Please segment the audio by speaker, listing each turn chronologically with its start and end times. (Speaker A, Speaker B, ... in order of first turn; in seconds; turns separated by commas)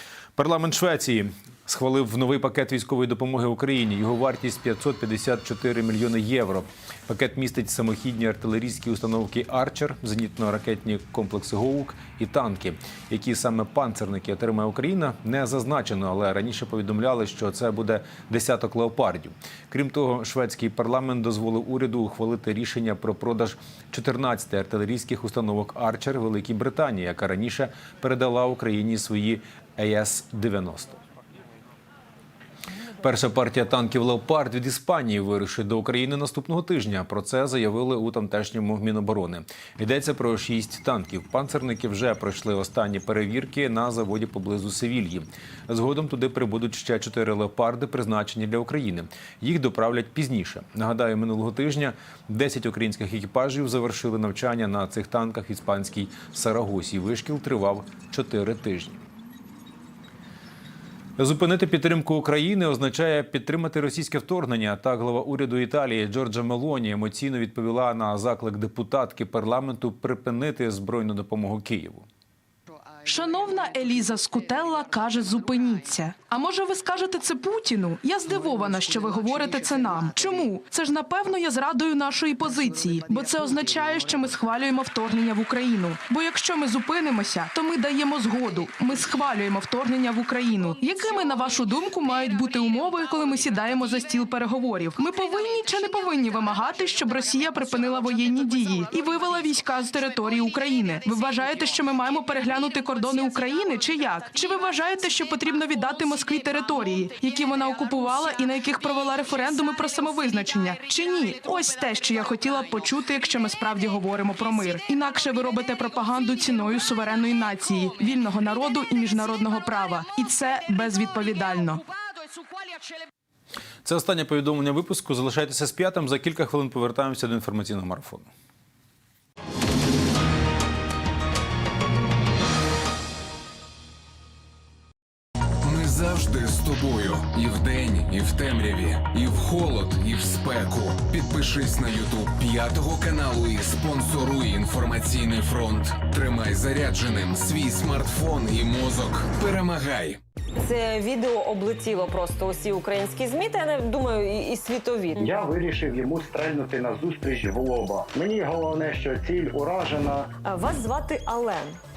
Speaker A: 0.4-31.0, Speaker A: 33.0-59.0, Speaker A: 61.2-72.0, Speaker B: 73.0-121.8, Speaker A: 123.8-128.3, Speaker C: 135.6-150.2, Speaker D: 150.6-155.3, Speaker E: 155.2-160.3, Speaker D: 160.4-161.8